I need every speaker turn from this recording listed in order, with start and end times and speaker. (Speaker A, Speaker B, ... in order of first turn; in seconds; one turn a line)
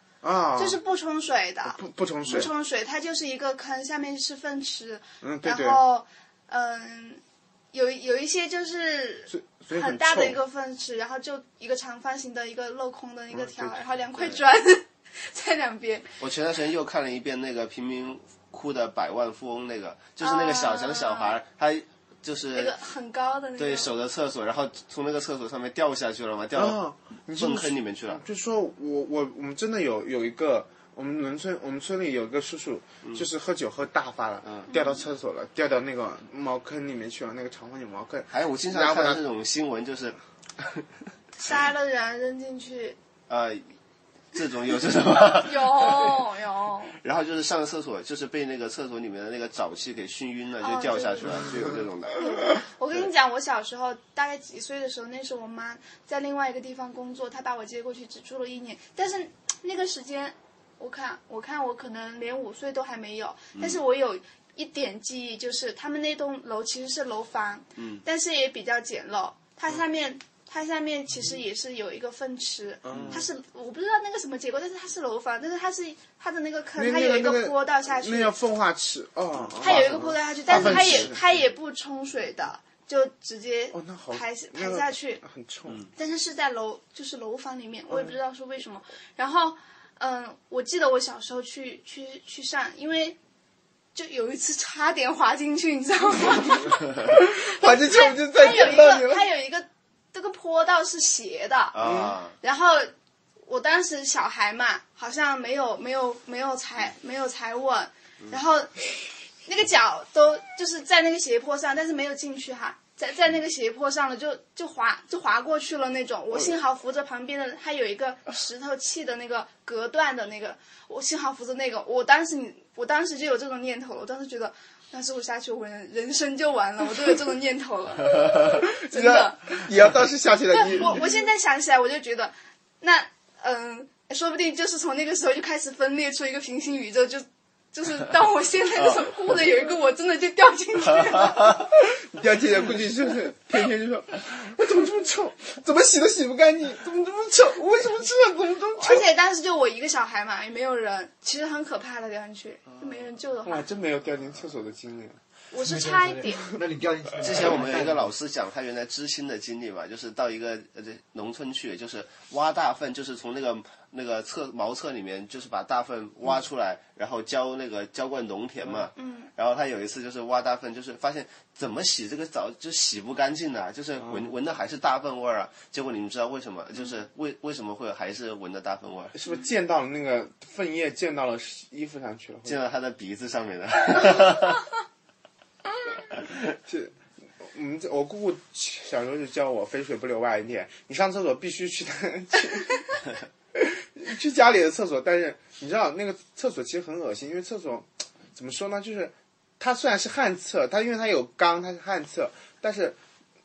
Speaker A: 0.2-0.8
Speaker B: 0.6-7.2
Speaker A: 1.6-2.5
Speaker A: 5.2-5.8
Speaker B: 7.7-16.1
Speaker A: 9.3-10.4
Speaker A: 13.3-13.8
Speaker C: 16.2-22.8
Speaker B: 20.2-21.4
Speaker B: 22.5-23.9
Speaker C: 23.6-26.8
Speaker A: 26.5-39.2
Speaker C: 27.3-28.2
Speaker C: 33.0-33.3
Speaker B: 34.7-35.0
Speaker C: 38.3-40.9
Speaker B: 41.4-43.0
Speaker C: 43.3-43.7
Speaker C: 44.3-46.2
Speaker B: 45.4-47.0
Speaker C: 47.0-53.1
Speaker B: 50.6-78.4
Speaker C: 63.6-63.8
Speaker C: 67.8-68.0
Speaker A: 72.8-73.3
Speaker C: 72.9-73.3
Speaker A: 76.8-81.2
Speaker C: 79.4-79.9
Speaker B: 79.6-85.2
Speaker C: 80.5-81.2
Speaker A: 83.7-85.8
Speaker B: 86.0-93.2
Speaker B: 93.9-101.8
Speaker A: 97.1-99.2
Speaker C: 101.7-102.3
Speaker A: 101.8-102.2
Speaker B: 102.4-102.9
Speaker B: 103.5-108.8
Speaker B: 109.4-129.6
Speaker A: 128.6-131.0
Speaker B: 130.5-141.6
Speaker C: 130.7-131.0
Speaker A: 141.8-149.1
Speaker B: 148.8-153.7
Speaker C: 152.7-153.1
Speaker A: 153.4-155.2
Speaker B: 155.5-156.5
Speaker D: 155.6-158.1
Speaker C: 157.2-179.2
Speaker B: 168.9-169.3
Speaker A: 174.0-174.3
Speaker A: 179.1-182.6
Speaker C: 182.4-184.6
Speaker A: 186.7-193.0
Speaker A: 193.5-203.0